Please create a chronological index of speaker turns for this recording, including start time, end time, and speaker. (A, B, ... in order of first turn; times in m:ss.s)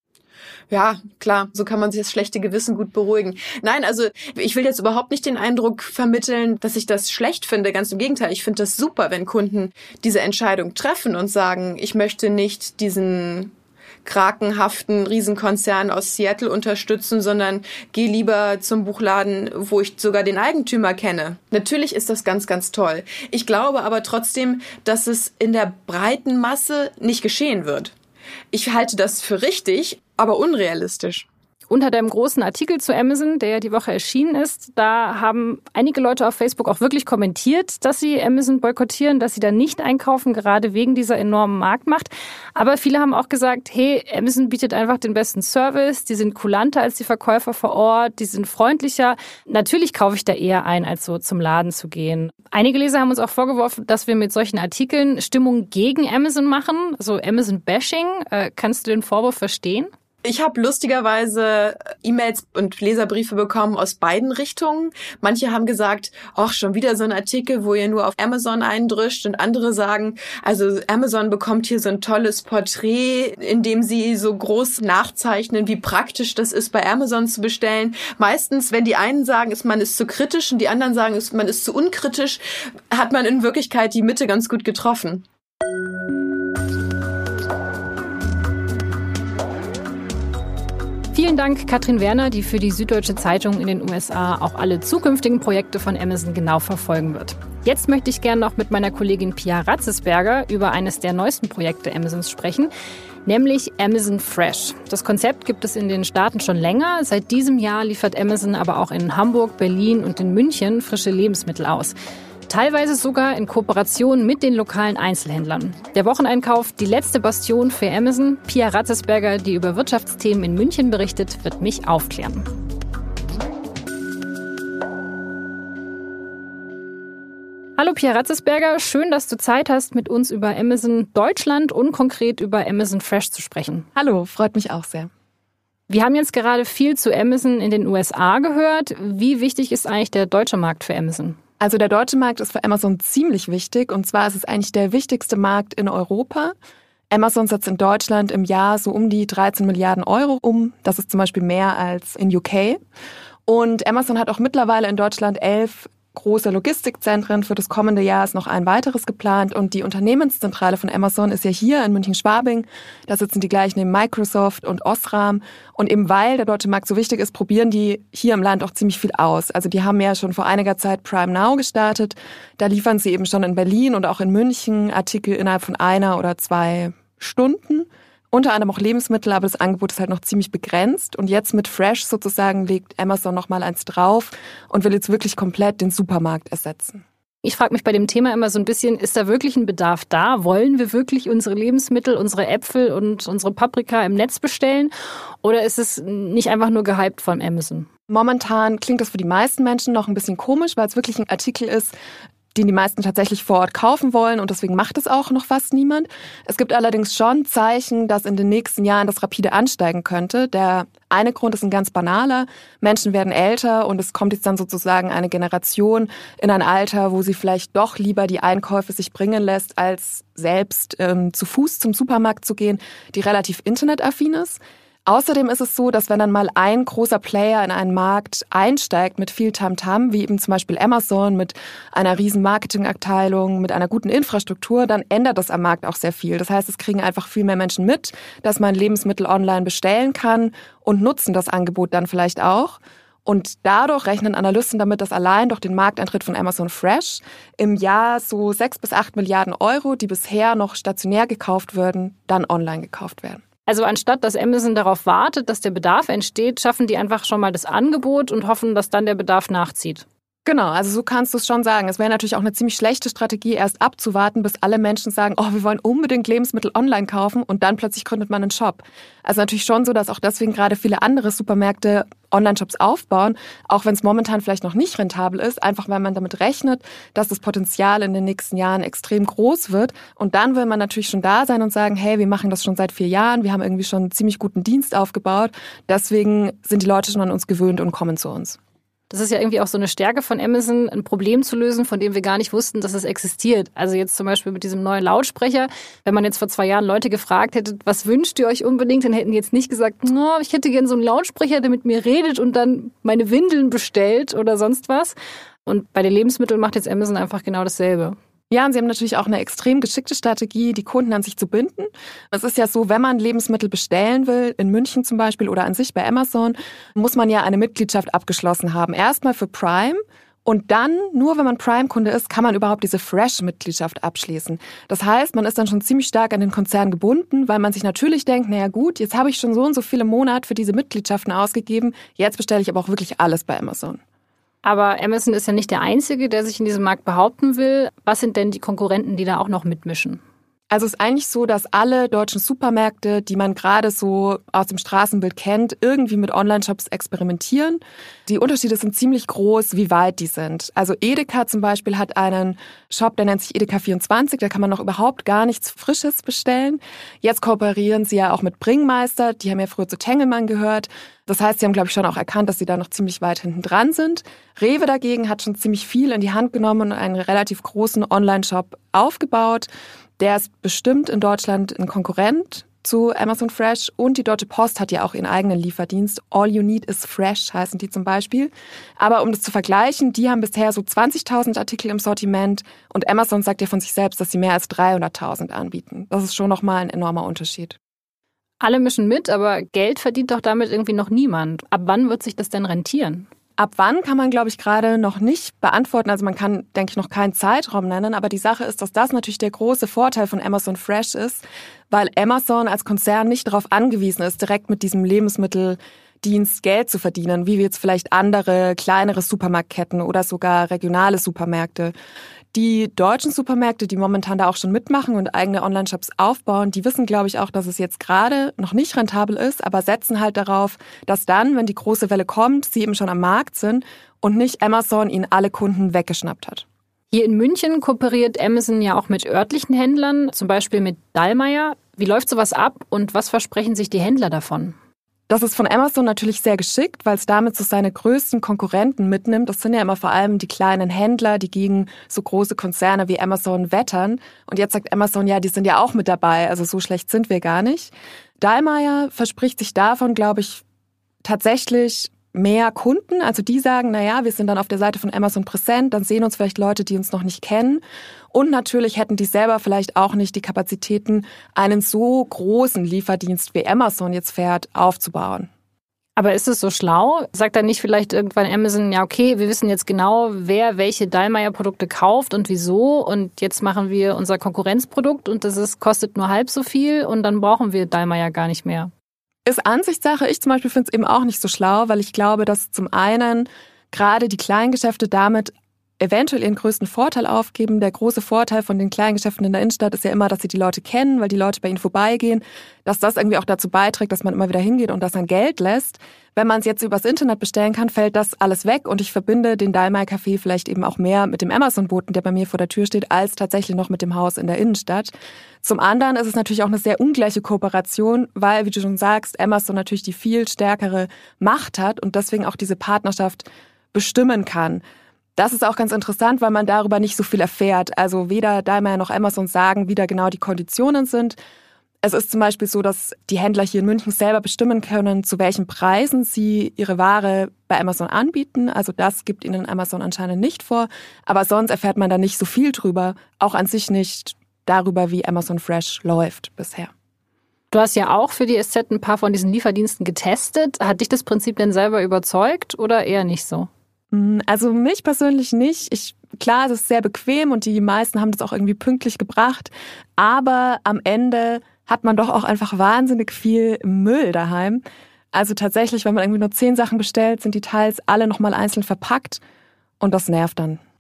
0:00.7-0:13.5 A
0:14.0-0:27.9 A
0:28.5-0:31.3 A
0:31.7-0:59.9 B
1:00.2-1:25.2 A
1:31.1-1:42.7 B
1:43.3-1:51.9 B
1:52.5-2:02.5 B
2:07.8-2:13.9 B
2:14.0-2:15.1 C
2:15.9-2:21.4 B
2:21.6-2:26.6 C
2:27.1-2:32.8 C
2:33.5-3:07.0 C
3:07.4-3:14.9 B
3:15.4-3:17.9 B
3:18.1-3:21.9 C
3:22.6-4:13.4 C
4:13.7-4:20.0 B
4:20.5-4:48.6 C
4:49.1-5:05.2 B
5:05.7-5:08.2 B
5:08.5-5:34.0 C
5:34.6-5:40.2 B
5:40.7-6:09.7 C
6:10.2-6:27.8 C
6:28.6-6:33.3 B
6:33.6-6:51.9 C
6:52.5-7:06.7 C
7:07.1-7:14.8 B
7:15.3-7:30.6 C
7:31.2-7:45.5 C
7:46.2-7:58.9 B
7:59.5-8:34.8 C
8:35.4-8:41.4 C
8:42.0-8:56.9 C
8:57.7-9:03.7 B
9:04.1-9:14.8 C
9:15.3-9:19.4 C
9:20.0-9:20.8 C